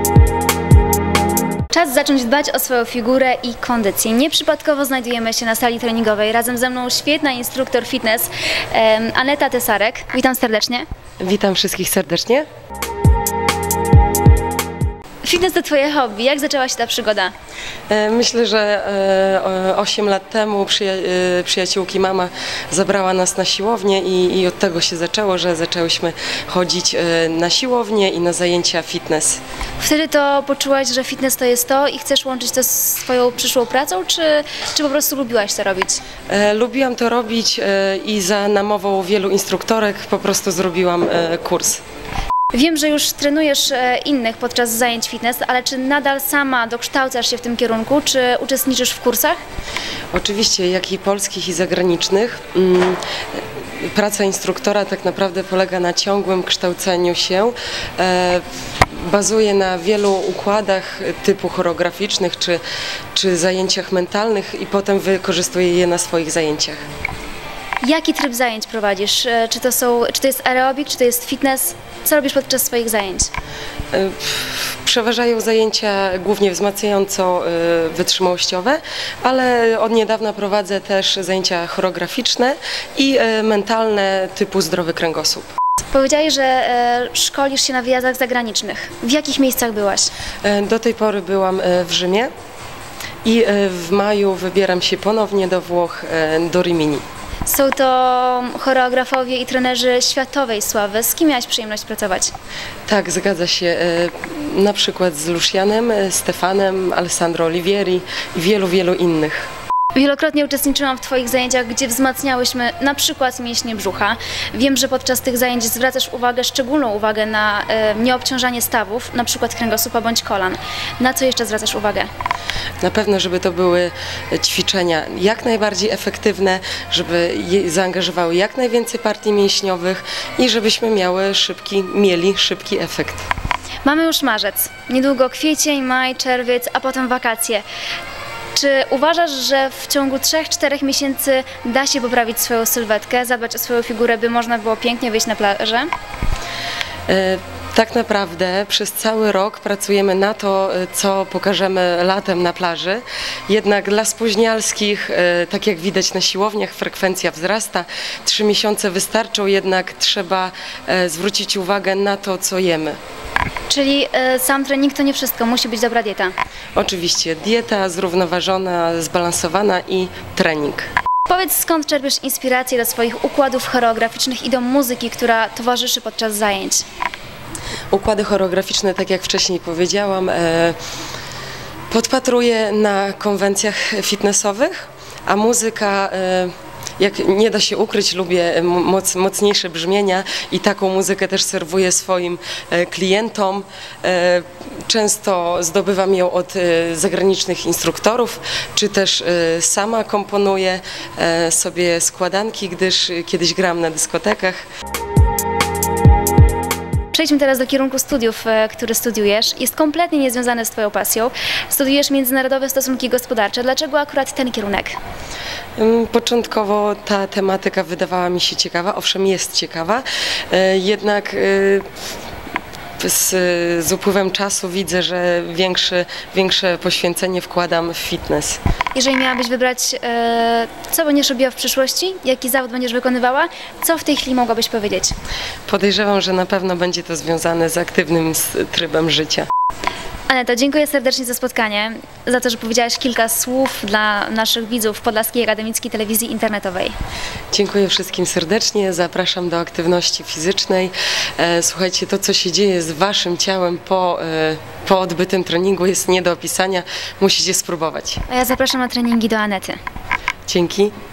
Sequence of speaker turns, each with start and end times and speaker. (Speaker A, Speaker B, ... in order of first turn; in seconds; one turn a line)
Speaker A: 1.7-10.8
Speaker B: 11.2-12.4
Speaker A: 15.2-17.3
Speaker B: 17.9-29.4
Speaker A: 29.8-36.0
Speaker B: 36.3-41.8
Speaker A: 42.5-49.4
Speaker B: 50.1-62.6
Speaker B: 63.1-66.8
Speaker A: 67.8-73.3
Speaker B: 73.9-85.5
Speaker A: 85.9-90.1
Speaker B: 90.4-92.3
Speaker B: 93.2-97.0
Speaker A: 97.5-102.3
Speaker B: 102.9-109.5
Speaker A: 109.9-122.1
Speaker B: 122.8-133.3
Speaker A: 133.8-137.6
Speaker A: 138.5-145.9
Speaker B: 147.1-163.0
Speaker A: 163.7-166.3
Speaker B: 166.7-170.9
Speaker A: 171.3-176.8
Speaker B: 177.9-180.8
Speaker B: 181.9-204.6
Speaker A: 207.1-215.0
Speaker B: 215.8-221.9
Speaker B: 223.0-228.6
Speaker A: 228.9-235.1
Speaker B: 235.7-239.5
Speaker A: 240.3-246.9
Speaker B: 247.5-258.2
Speaker A: 258.3-259.8
Speaker B: 260.5-260.9